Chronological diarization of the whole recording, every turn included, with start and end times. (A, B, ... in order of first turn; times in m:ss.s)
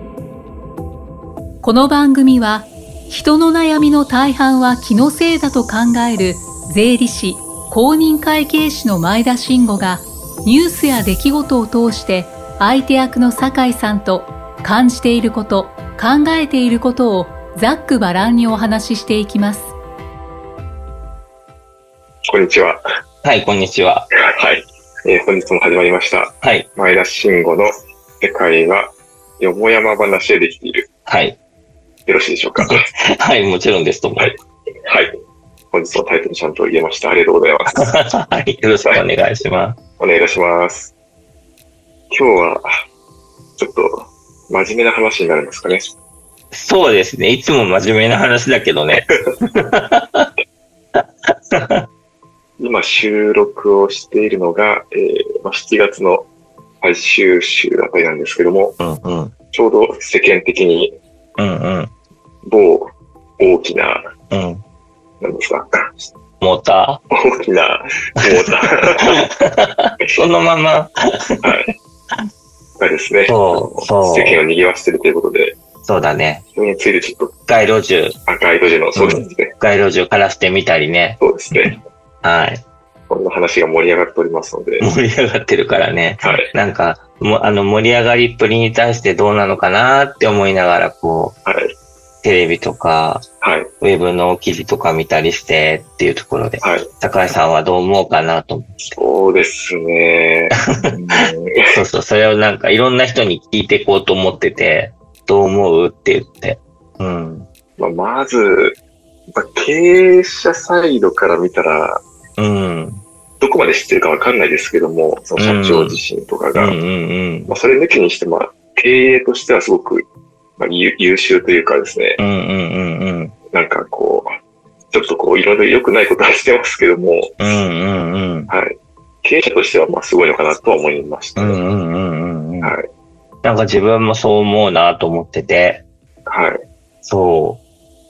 0:01.6-0:19.7 A
0:22.3-0:22.8 B
0:23.2-0:24.1 C
0:24.2-0:27.7 B
0:26.4-0:26.7 C
0:28.2-0:30.9 B
0:31.1-0:31.4 C
0:32.0-0:32.8 B
0:32.6-0:34.3 C
0:34.2-0:35.1 B
0:35.7-0:37.9 B
0:37.7-0:39.8 C
0:40.0-0:40.9 B
0:42.1-0:42.6 B
0:43.6-0:45.9 B
0:46.5-0:50.3 C
0:48.9-0:49.3 B
0:51.0-0:51.9 C
0:52.6-0:56.2 B
0:56.8-0:58.8 B
0:58.8-0:59.3 C
0:59.5-1:00.9 B
1:01.4-1:01.9 C
1:02.4-1:04.1 B
1:04.3-1:04.6 C
1:05.2-1:06.1 B
1:06.4-1:07.0 C
1:07.1-1:09.2 B
1:09.0-1:12.2 C
1:11.4-1:11.7 B
1:12.8-1:15.6 B
1:13.3-1:14.4 C
1:15.8-1:16.4 C
1:16.6-1:17.3 B
1:17.5-1:18.2 C
1:18.3-1:19.5 B
1:18.9-1:22.6 C
1:21.2-1:21.8 B
1:23.1-1:24.9 B
1:24.8-1:31.4 C
1:26.2-1:26.5 B
1:31.4-1:31.7 B
1:32.2-1:33.2 C
1:33.4-1:33.7 B
1:33.8-1:39.0 C
1:36.6-1:36.9 B
1:38.8-1:41.8 B
1:41.7-1:47.5 C
1:47.8-1:48.8 B
1:49.3-1:52.0 B
1:52.4-1:53.0 C
1:53.4-1:56.8 B
1:55.4-1:56.0 C
1:56.5-1:57.5 C
1:57.5-2:00.0 B
2:00.6-2:02.2 B
2:02.2-2:03.3 C
2:03.5-2:04.3 B
2:04.9-2:07.3 B
2:07.4-2:08.5 C
2:08.5-2:11.6 B
2:11.4-2:12.7 C
2:13.4-2:15.8 C
2:16.3-2:16.6 B
2:17.0-2:17.6 C